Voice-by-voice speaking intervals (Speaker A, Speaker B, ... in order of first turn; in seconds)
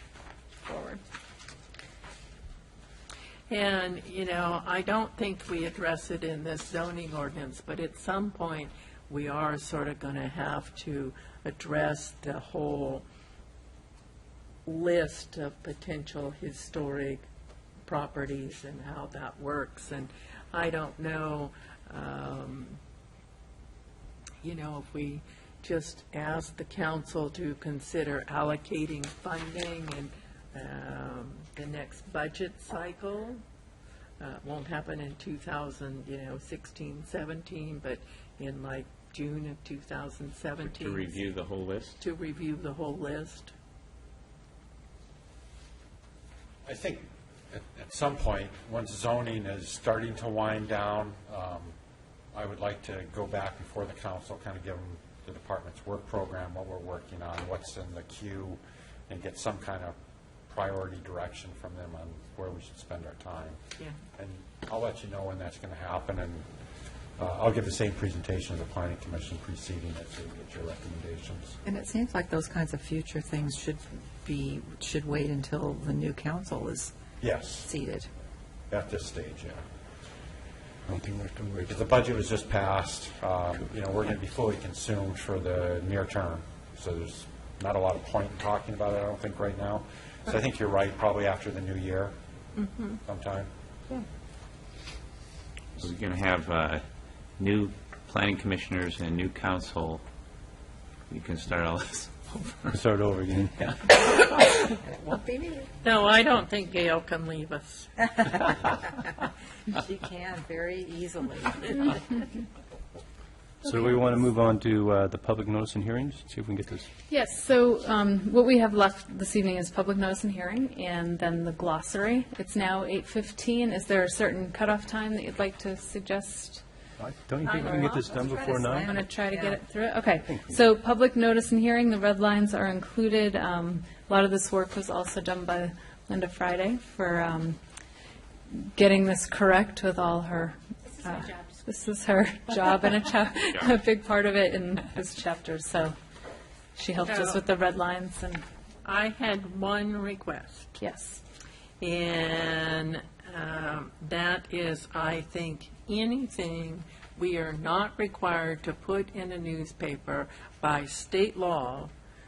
Speaker A: 0.7-1.0, 117.1-126.6, 128.7-137.6, 138.5-145.9, 146.7-148.4, 150.8-151.2
Speaker B: 3.5-13.1, 14.6-17.2, 17.8-22.8, 24.4-33.4, 34.2-41.2, 42.0-43.5, 105.8-107.9, 127.4-128.1, 147.0-147.4, 148.8-150.8, 151.8-161.9
Speaker C: 40.6-42.0, 95.8-96.8, 97.4-100.0, 101.1-102.8
Speaker D: 46.6-51.7, 52.3-60.0, 60.5-63.6, 64.2-66.5, 67.2-71.6, 77.2-77.7, 78.7-79.6, 81.7-92.2, 93.0-93.5
Speaker E: 71.6-76.9, 77.6-78.1, 104.1-105.7, 109.7-112.2, 128.1-129.6
Speaker F: 80.9-81.8, 102.7-103.8, 113.6-116.8, 127.0-128.9, 130.3-130.5